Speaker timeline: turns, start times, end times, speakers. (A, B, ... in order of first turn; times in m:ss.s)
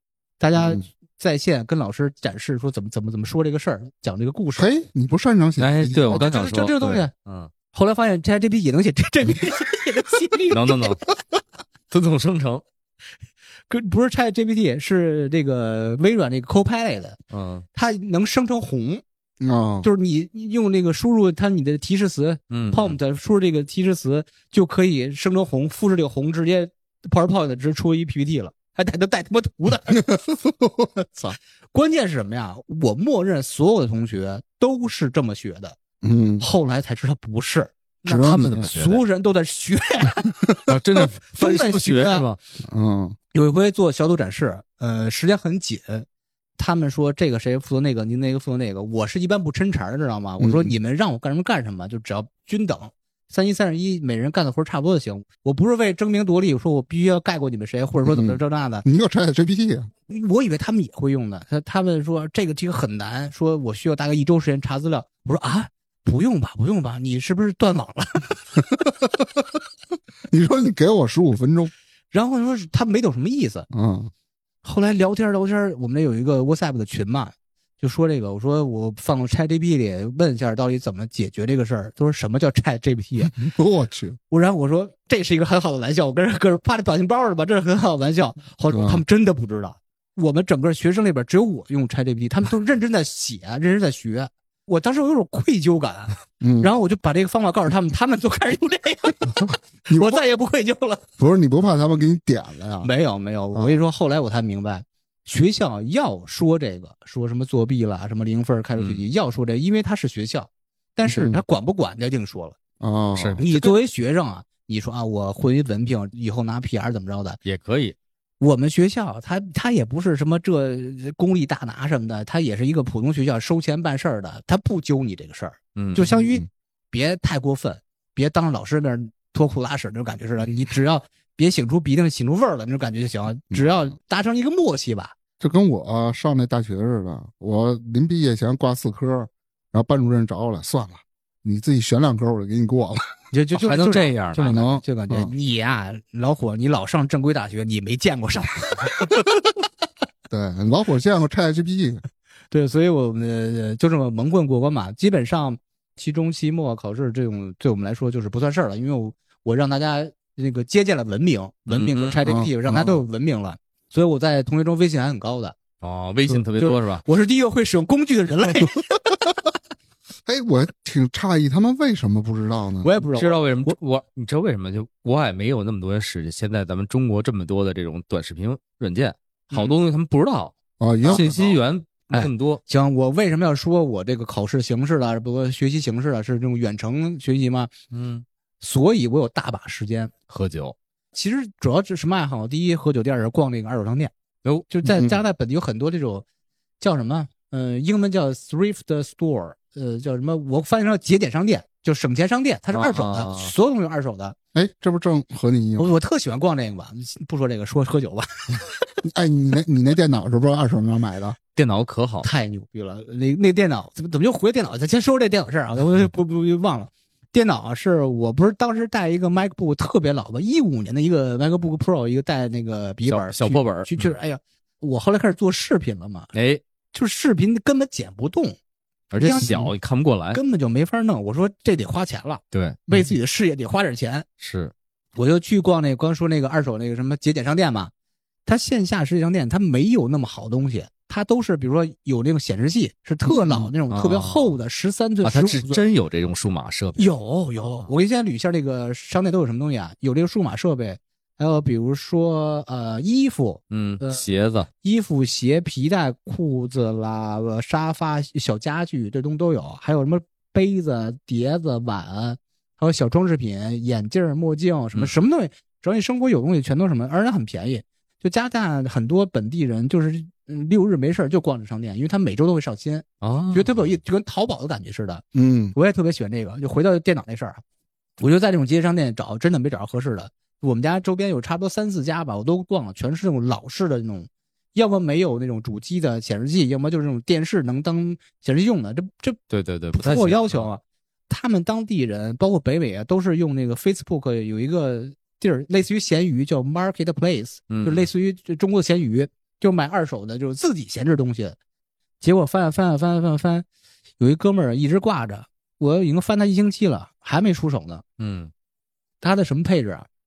0:00.4-0:04.7 A
0:04.6-0:06.3 B
0:05.6-0:07.5 C
0:06.1-0:07.1 A
0:07.7-0:11.0 A
0:10.5-0:11.0 C
0:11.9-0:12.6 C
0:13.7-0:17.2 A
0:17.3-0:17.7 C
0:17.7-0:19.0 A
0:19.4-0:19.9 B
0:19.8-0:30.2 A
0:22.5-0:23.0 C
0:30.0-0:31.4 B
0:31.7-0:35.8 A
0:36.0-0:36.4 B
0:36.4-0:40.7 A
0:38.1-0:38.7 B
0:38.1-0:39.0 C
0:40.7-0:42.4 C
0:41.3-0:42.3 A
0:42.6-0:43.2 B
0:43.3-0:46.1 A
0:46.6-0:58.8 A
0:50.4-0:50.7 B
0:58.1-0:59.9 B
1:00.1-1:08.5 A
1:10.3-1:11.7 B
1:12.1-1:13.7 A
1:13.7-1:14.1 B
1:14.6-1:23.4 A
1:23.3-1:24.2 B
1:24.3-1:41.0 A
1:28.7-1:29.0 B
1:36.4-1:36.7 B
1:39.9-1:40.2 B
1:41.2-1:42.9 B
1:42.8-1:52.6 A
1:48.8-1:49.0 C
1:51.1-1:51.4 B
1:52.8-1:53.6 B
1:53.2-1:53.4 C
1:53.4-1:57.4 A
1:57.4-1:58.0 C
1:58.4-2:15.2 A
2:05.8-2:06.1 C
2:06.1-2:06.4 B
2:15.4-2:23.1 B
2:23.3-2:29.1 A
2:23.6-2:24.6 C
2:24.4-2:25.3 B
2:30.3-2:32.0 B
2:32.5-2:45.6 A
2:41.7-2:42.2 C
2:42.3-2:43.0 B
2:45.8-2:47.0 C
2:46.3-2:49.2 A
2:50.3-2:52.9 B
2:52.8-2:53.8 A
2:53.1-3:00.5 C
3:00.8-3:01.3 B
3:01.0-3:01.5 A
3:01.1-3:02.6 C
3:02.1-3:07.7 A
3:07.9-3:08.2 C
3:08.6-3:10.1 A
3:10.3-3:10.8 C
3:11.1-3:14.1 A
3:14.7-3:16.2 A
3:14.9-3:15.2 B
3:16.8-3:24.4 A
3:22.7-3:23.5 C
3:24.5-3:25.9 B
3:25.8-3:28.7 A
3:29.0-3:31.4 B
3:31.6-3:32.3 C
3:32.2-3:46.3 A
3:43.1-3:44.1 C
3:46.3-3:46.6 C
3:46.9-3:48.6 A
3:49.1-3:50.4 C
3:49.2-3:49.7 A
3:50.3-3:54.3 A
3:52.5-3:53.0 C
3:54.4-3:54.7 C
3:55.2-3:57.9 A
3:58.5-4:05.8 A
4:03.4-4:04.5 C
4:05.2-4:07.1 C
4:07.0-4:14.2 A
4:13.7-4:14.7 C
4:14.8-4:37.6 A
4:33.2-4:33.7 C
4:35.4-4:35.7 B
4:38.2-4:49.4 A
4:49.5-4:50.7 C
4:49.9-5:01.6 A
4:57.7-4:58.1 C
5:02.2-5:03.7 A
5:04.2-5:08.0 A
5:08.2-5:08.5 C
5:09.2-5:10.1 A